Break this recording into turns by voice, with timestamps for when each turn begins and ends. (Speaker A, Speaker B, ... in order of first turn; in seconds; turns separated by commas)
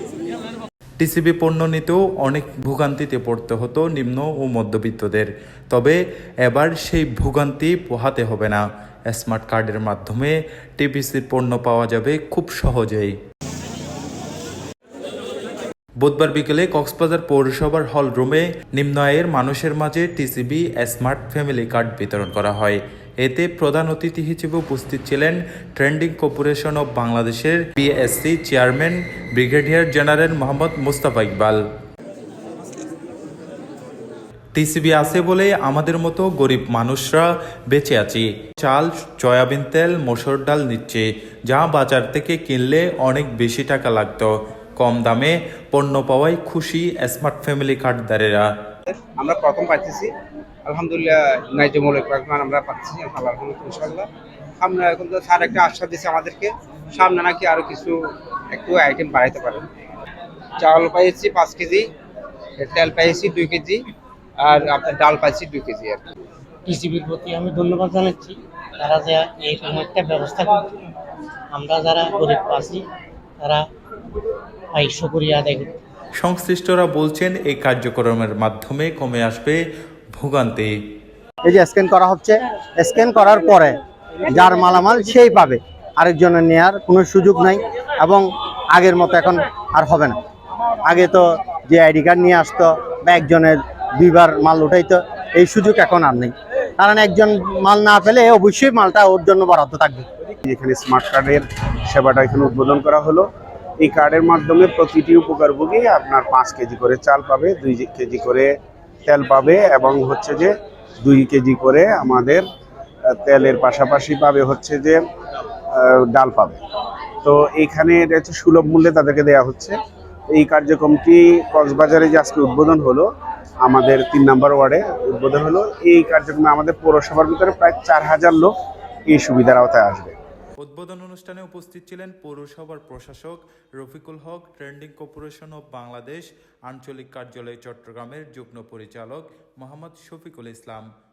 Speaker A: 1.0-13.1, Speaker A: 16.0-31.6, Speaker A: 34.5-48.5, Speaker B: 49.0-50.1, Speaker B: 50.6-54.1, Speaker B: 54.6-58.0, Speaker B: 58.5-59.7, Speaker B: 60.6-61.9, Speaker B: 62.6-63.8, Speaker B: 64.4-66.0, Speaker C: 66.7-70.7, Speaker C: 71.5-72.8, Speaker C: 74.7-75.7, Speaker A: 76.2-79.6, Speaker A: 80.2-80.7, Speaker D: 81.5-90.2, Speaker D: 90.8-100.0, Speaker E: 100.4-103.3, Speaker E: 103.8-108.5, Speaker E: 109.0-112.5, Speaker E: 113.0-115.0, Speaker E: 115.7-116.6, Speaker E: 117.2-119.8, Speaker E: 120.3-123.1, Speaker E: 123.6-128.5, Speaker E: 129.1-130.2, Speaker A: 130.6-140.9